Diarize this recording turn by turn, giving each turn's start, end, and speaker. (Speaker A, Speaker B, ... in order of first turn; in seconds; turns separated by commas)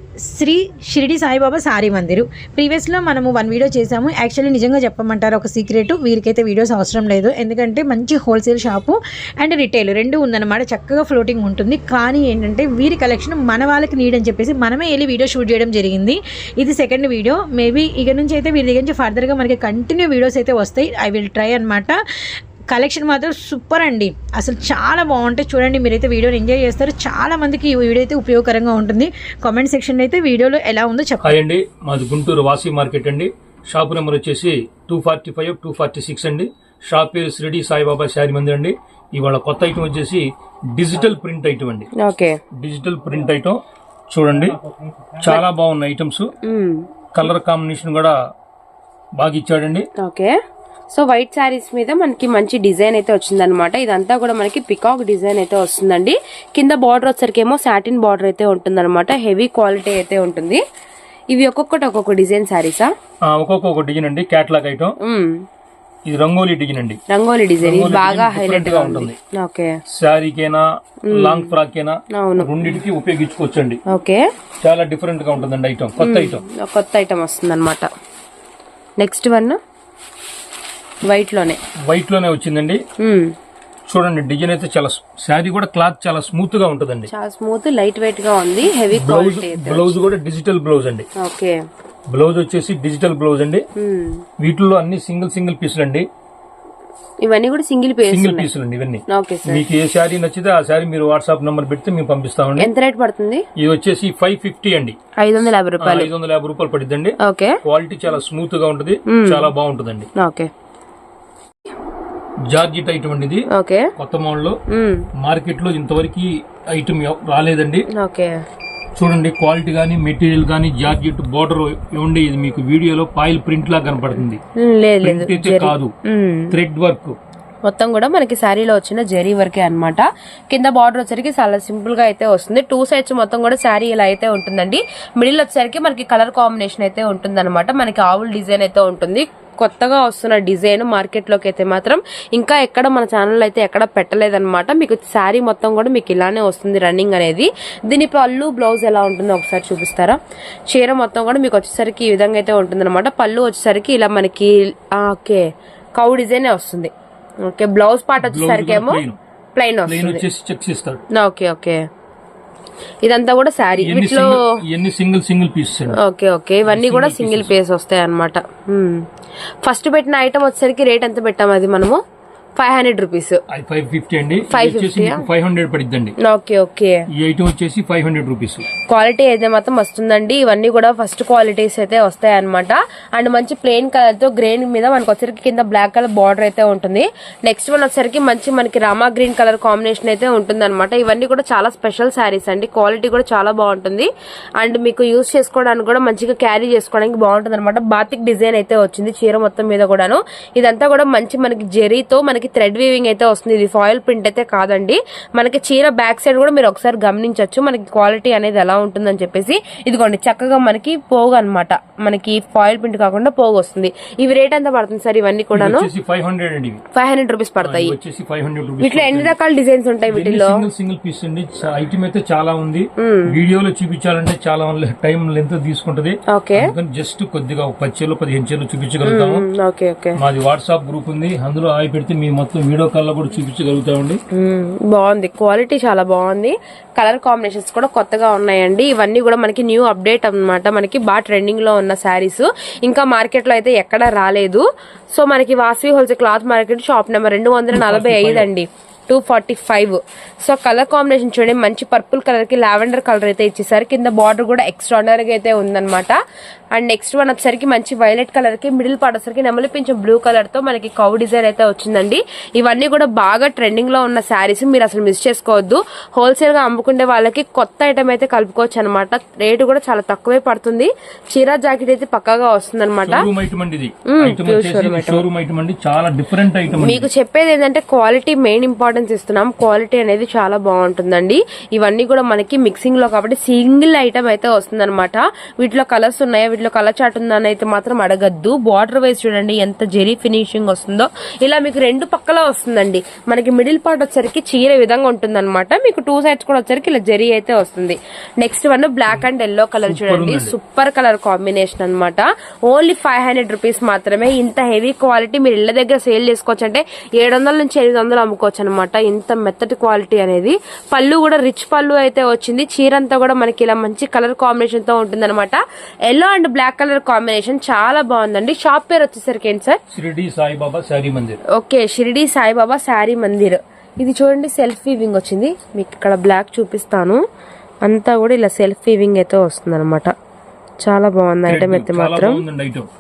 Speaker A: 0.3-22.0, Speaker A: 22.7-31.4, Speaker B: 31.2-41.9, Speaker C: 42.0-42.4, Speaker B: 42.6-44.6, Speaker B: 45.1-46.3, Speaker C: 46.4-46.9, Speaker B: 47.1-48.1, Speaker B: 49.2-49.9, Speaker C: 50.0-50.4, Speaker C: 50.9-60.6, Speaker C: 61.3-62.9, Speaker B: 63.3-65.0, Speaker C: 65.0-65.4, Speaker B: 66.1-67.0, Speaker C: 67.1-69.8, Speaker B: 67.6-69.2, Speaker B: 69.9-73.8, Speaker C: 71.1-71.5, Speaker C: 72.1-72.6, Speaker C: 73.9-74.3, Speaker B: 74.6-76.4, Speaker C: 76.0-77.9, Speaker C: 79.0-79.6, Speaker C: 81.0-81.6, Speaker B: 81.9-82.8, Speaker C: 83.0-83.3, Speaker B: 83.9-87.1, Speaker C: 87.1-89.9, Speaker B: 88.9-91.1, Speaker C: 91.2-91.6, Speaker B: 92.1-93.6, Speaker C: 93.8-94.2, Speaker B: 94.4-96.1, Speaker C: 97.2-98.5, Speaker B: 98.1-102.7, Speaker C: 99.1-99.6, Speaker C: 102.6-103.4, Speaker B: 103.6-105.0, Speaker C: 105.2-106.1, Speaker B: 105.8-110.1, Speaker C: 107.2-107.6, Speaker C: 109.1-109.5, Speaker C: 110.2-110.5, Speaker B: 112.5-114.6, Speaker C: 113.5-113.9, Speaker C: 114.7-115.1, Speaker B: 115.2-117.9, Speaker C: 117.9-118.4, Speaker B: 119.0-124.4, Speaker C: 124.6-126.5, Speaker B: 125.0-125.9, Speaker B: 126.5-127.2, Speaker C: 127.7-155.4, Speaker C: 156.0-156.9, Speaker C: 157.4-159.0, Speaker B: 158.2-159.2, Speaker C: 159.6-160.2, Speaker B: 159.9-161.0, Speaker C: 161.1-161.8, Speaker C: 163.0-164.4, Speaker B: 163.8-166.0, Speaker C: 165.9-169.0, Speaker B: 166.7-167.5, Speaker C: 169.6-172.0, Speaker C: 172.6-173.4, Speaker B: 173.5-176.2, Speaker C: 174.5-175.2, Speaker C: 176.2-177.0, Speaker B: 177.2-178.7, Speaker C: 178.9-215.9, Speaker B: 215.5-216.8, Speaker C: 216.9-217.9, Speaker B: 217.6-219.3, Speaker C: 218.8-220.7, Speaker B: 220.1-229.5, Speaker C: 223.0-223.3, Speaker C: 226.3-226.7, Speaker C: 229.0-230.2, Speaker B: 230.2-234.2, Speaker C: 234.3-256.2, Speaker B: 247.7-248.5, Speaker C: 256.8-273.3, Speaker B: 273.0-277.1, Speaker C: 274.1-275.3, Speaker C: 276.7-319.8, Speaker B: 299.8-300.6, Speaker B: 319.9-321.4, Speaker C: 321.5-327.2, Speaker C: 327.8-330.1, Speaker C: 330.8-332.4, Speaker B: 331.5-332.9